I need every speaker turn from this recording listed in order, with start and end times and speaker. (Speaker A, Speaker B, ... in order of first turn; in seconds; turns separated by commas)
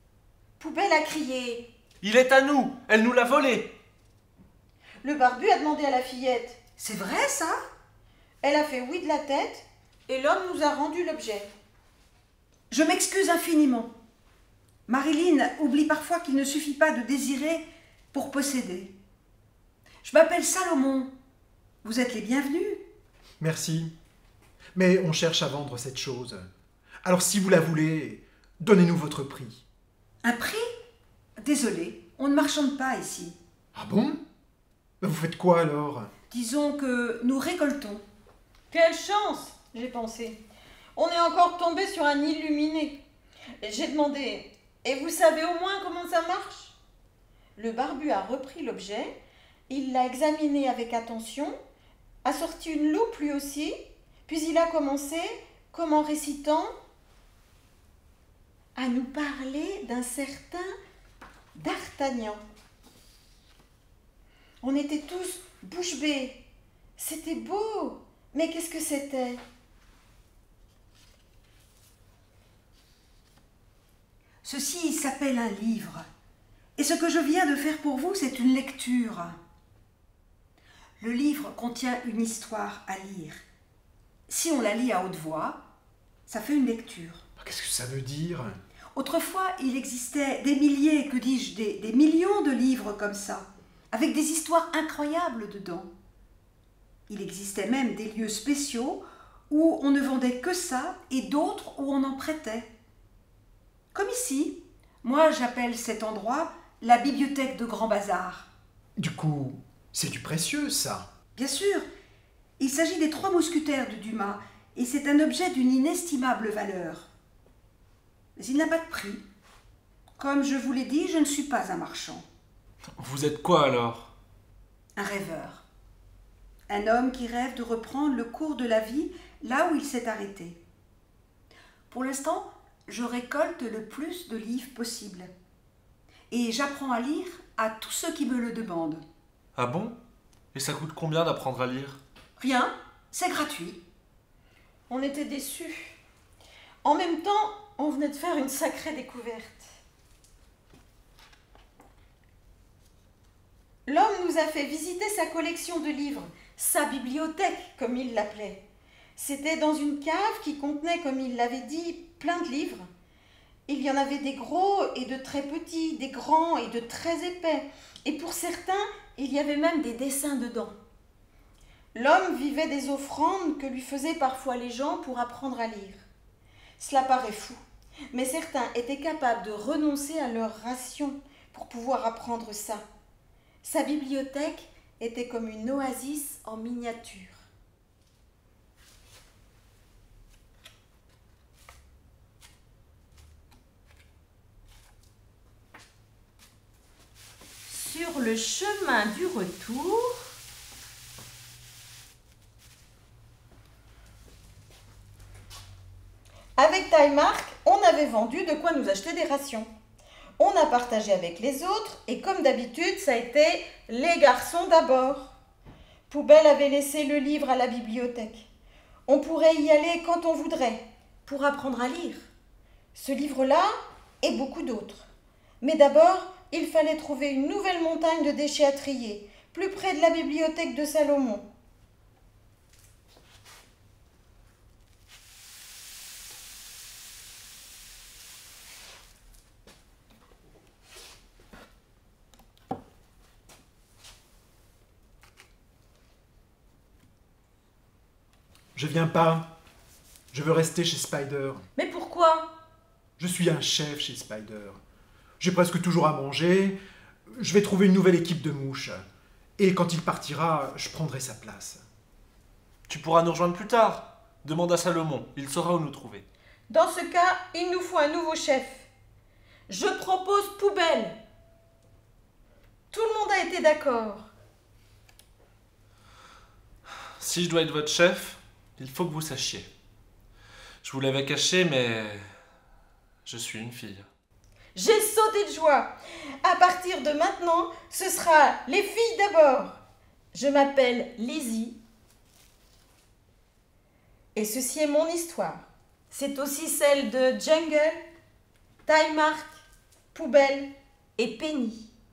Speaker A: 0.6-1.7, Speaker B: 2.0-3.7, Speaker A: 5.0-6.6, Speaker C: 6.8-7.6, Speaker A: 8.4-11.5, Speaker C: 12.7-13.9, Speaker C: 14.9-18.9, Speaker C: 20.0-21.1, Speaker C: 21.8-22.8, Speaker D: 23.4-23.9, Speaker D: 24.8-26.5, Speaker D: 27.0-29.6, Speaker C: 30.2-30.6, Speaker C: 31.4-33.4, Speaker D: 33.8-34.2, Speaker D: 35.0-36.1, Speaker C: 36.3-38.0, Speaker A: 38.7-40.4, Speaker A: 41.0-43.0, Speaker A: 43.6-46.7, Speaker A: 47.6-49.1, Speaker A: 49.7-51.5, Speaker A: 52.2-56.7, Speaker A: 58.8-60.7, Speaker A: 61.5-62.4, Speaker A: 64.6-66.4, Speaker A: 67.0-69.4, Speaker C: 74.4-76.0, Speaker C: 76.8-79.4, Speaker C: 81.0-83.4, Speaker C: 84.3-85.6, Speaker C: 86.3-87.2, Speaker D: 87.4-88.6, Speaker C: 89.0-95.9, Speaker C: 97.1-102.7, Speaker C: 103.9-108.5, Speaker D: 109.0-111.1, Speaker C: 111.4-111.9, Speaker C: 112.6-117.1, Speaker C: 118.4-119.2, Speaker C: 120.2-122.2, Speaker B: 123.0-124.1, Speaker C: 125.0-125.6, Speaker C: 126.7-130.6, Speaker C: 131.9-135.3, Speaker C: 136.3-139.0, Speaker B: 139.6-140.0, Speaker B: 140.5-142.0, Speaker C: 142.4-143.8, Speaker A: 144.9-146.0, Speaker A: 146.8-149.7, Speaker A: 153.9-158.6, Speaker A: 159.2-162.9, Speaker A: 163.7-170.7, Speaker A: 171.9-176.0, Speaker A: 176.8-177.6, Speaker A: 178.1-182.8, Speaker A: 183.6-187.5, Speaker A: 197.7-200.2, Speaker A: 206.6-209.7, Speaker A: 210.4-215.3, Speaker A: 216.1-218.5, Speaker A: 219.1-222.3, Speaker A: 222.9-225.1, Speaker A: 225.6-231.5, Speaker D: 248.8-249.5, Speaker D: 250.3-251.6, Speaker A: 251.8-252.5, Speaker D: 253.2-254.8, Speaker D: 255.4-256.8, Speaker D: 257.3-259.0, Speaker D: 259.6-261.8, Speaker B: 262.9-266.2, Speaker A: 266.7-268.9, Speaker A: 269.7-271.2, Speaker A: 272.9-274.3, Speaker B: 277.2-279.7, Speaker B: 280.8-282.2, Speaker B: 283.3-284.1, Speaker A: 284.8-289.8, Speaker A: 290.3-291.8, Speaker A: 294.4-298.0, Speaker A: 298.9-301.9